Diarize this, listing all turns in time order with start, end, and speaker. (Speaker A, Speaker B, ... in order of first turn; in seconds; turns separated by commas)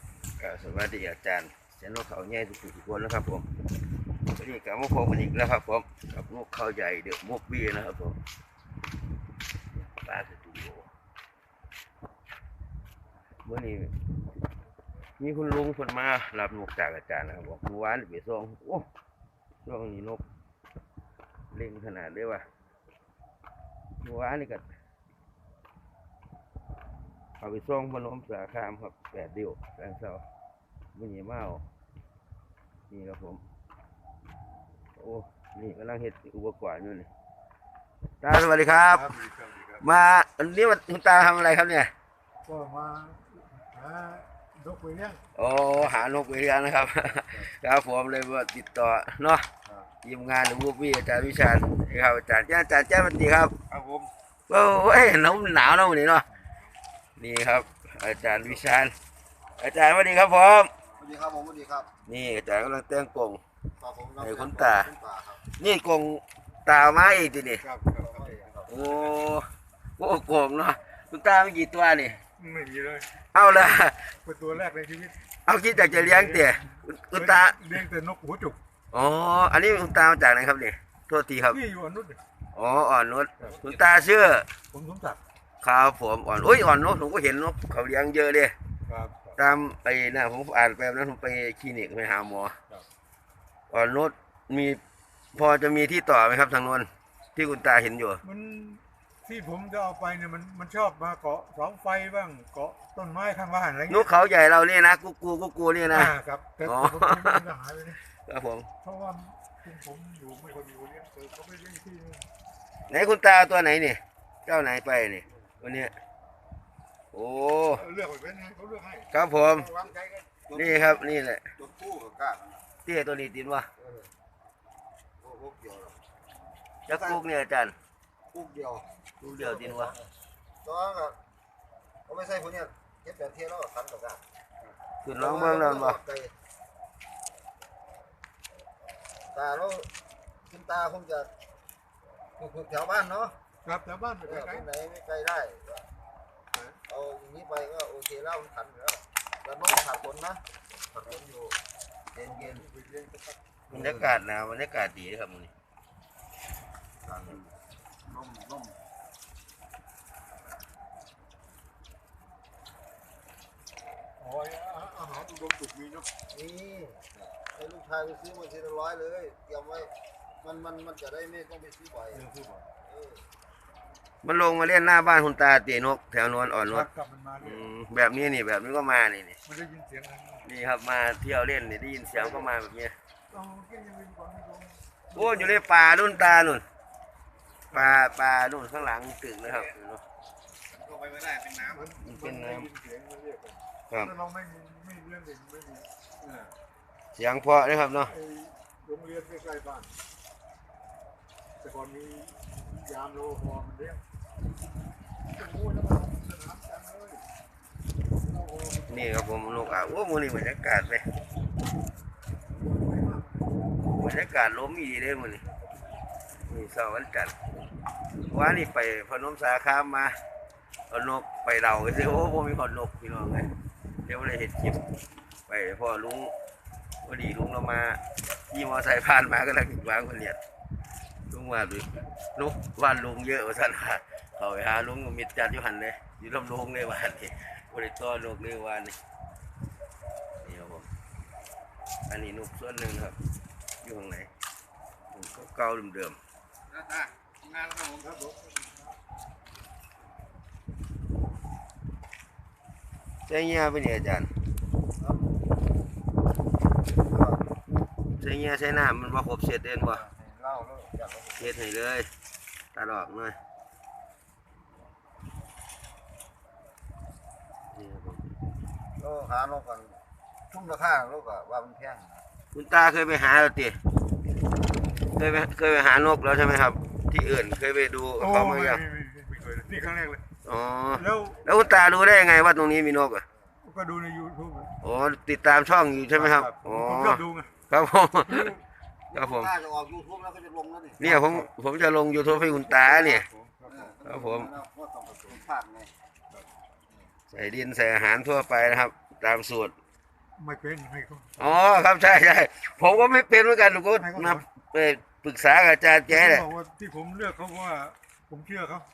Speaker A: 0.4-3.5, Speaker A: 4.3-8.2, Speaker A: 9.8-10.9, Speaker A: 13.4-13.9, Speaker A: 15.2-18.9, Speaker A: 19.6-20.2, Speaker A: 21.5-22.5, Speaker A: 24.0-24.7, Speaker A: 27.4-30.2, Speaker A: 30.9-31.6, Speaker A: 32.9-33.4, Speaker A: 35.0-37.1, Speaker A: 38.2-39.1, Speaker B: 38.8-39.9, Speaker A: 39.8-41.9, Speaker B: 42.4-45.2, Speaker A: 45.3-49.5, Speaker B: 47.1-47.5, Speaker A: 50.0-53.5, Speaker B: 53.7-54.1, Speaker A: 54.5-56.2, Speaker A: 57.2-58.9, Speaker A: 59.6-60.7, Speaker C: 61.0-61.9, Speaker A: 62.1-63.4, Speaker C: 63.8-65.4, Speaker A: 64.2-64.9, Speaker A: 65.5-67.6, Speaker B: 67.6-69.2, Speaker C: 68.0-68.5, Speaker A: 68.7-72.2, Speaker B: 72.4-73.1, Speaker A: 73.3-74.1, Speaker B: 74.2-78.6, Speaker A: 75.4-77.6, Speaker A: 78.9-81.6, Speaker B: 81.5-82.2, Speaker A: 82.5-84.5, Speaker B: 84.7-85.2, Speaker A: 85.6-88.5, Speaker B: 88.8-89.4, Speaker A: 89.4-92.5, Speaker A: 93.7-94.8, Speaker A: 95.3-98.2, Speaker B: 98.2-104.1, Speaker A: 103.9-106.1, Speaker B: 105.9-108.0, Speaker A: 106.6-107.4, Speaker A: 108.2-108.7, Speaker B: 108.8-112.3, Speaker A: 112.9-116.0, Speaker B: 115.3-115.9, Speaker A: 117.1-117.8, Speaker B: 117.8-120.3, Speaker A: 119.1-119.7, Speaker A: 120.5-121.5, Speaker C: 121.6-122.6, Speaker A: 122.8-123.7, Speaker C: 123.8-124.1, Speaker C: 125.2-126.0, Speaker A: 126.9-127.7, Speaker C: 128.3-130.1, Speaker A: 129.2-129.9, Speaker C: 130.6-131.2, Speaker C: 132.1-134.2, Speaker A: 135.0-136.0, Speaker C: 135.2-136.3, Speaker C: 139.3-139.9, Speaker C: 140.5-141.3, Speaker C: 142.4-143.3, Speaker B: 143.6-144.7, Speaker C: 144.3-145.8, Speaker B: 146.5-146.8, Speaker C: 146.9-150.4, Speaker C: 150.9-151.6, Speaker C: 152.1-152.6, Speaker B: 152.2-153.4, Speaker A: 153.7-155.5, Speaker C: 153.8-154.1, Speaker C: 157.1-157.3, Speaker C: 158.1-158.8, Speaker B: 164.2-166.1, Speaker C: 166.3-169.9, Speaker C: 170.4-172.2, Speaker B: 172.1-172.7, Speaker C: 172.9-173.2, Speaker A: 174.2-176.9, Speaker B: 176.6-177.7, Speaker A: 177.4-179.4, Speaker B: 179.4-180.5, Speaker A: 180.4-182.9, Speaker B: 182.1-182.5, Speaker B: 183.3-186.3, Speaker A: 185.1-186.6, Speaker B: 187.7-188.2, Speaker A: 187.7-190.0, Speaker B: 190.8-196.5, Speaker A: 192.0-192.7, Speaker A: 197.1-198.1, Speaker B: 198.1-199.9, Speaker B: 201.6-204.0, Speaker B: 205.3-207.2, Speaker B: 208.2-209.2, Speaker A: 208.9-211.1, Speaker B: 212.5-213.7, Speaker A: 214.0-215.4, Speaker A: 216.5-217.3, Speaker A: 218.3-220.2, Speaker A: 220.9-223.5, Speaker A: 224.0-224.8, Speaker A: 225.5-226.3, Speaker A: 227.0-230.4, Speaker A: 231.3-238.9, Speaker A: 240.4-240.9, Speaker A: 242.1-243.2, Speaker A: 243.8-244.3, Speaker A: 245.1-246.2, Speaker B: 247.9-248.8, Speaker A: 253.3-254.3, Speaker C: 255.0-255.5, Speaker C: 257.0-257.5, Speaker A: 258.2-260.0, Speaker C: 260.0-261.5, Speaker A: 261.4-262.1, Speaker A: 262.7-263.4, Speaker A: 267.7-268.2, Speaker C: 269.0-270.0, Speaker C: 270.5-272.2, Speaker A: 272.5-273.8, Speaker A: 275.1-278.8, Speaker B: 278.2-280.2, Speaker A: 280.4-283.2, Speaker B: 280.9-281.5, Speaker B: 283.6-284.8, Speaker A: 284.8-288.5, Speaker B: 286.1-287.5, Speaker B: 288.2-288.6, Speaker A: 289.1-289.5, Speaker C: 289.2-291.0, Speaker B: 291.0-291.5, Speaker A: 291.0-293.3, Speaker B: 292.4-293.9, Speaker C: 293.8-295.9, Speaker A: 294.0-294.5, Speaker A: 297.3-299.7, Speaker B: 300.4-301.3, Speaker A: 301.4-306.4, Speaker B: 304.0-304.4, Speaker B: 306.1-308.9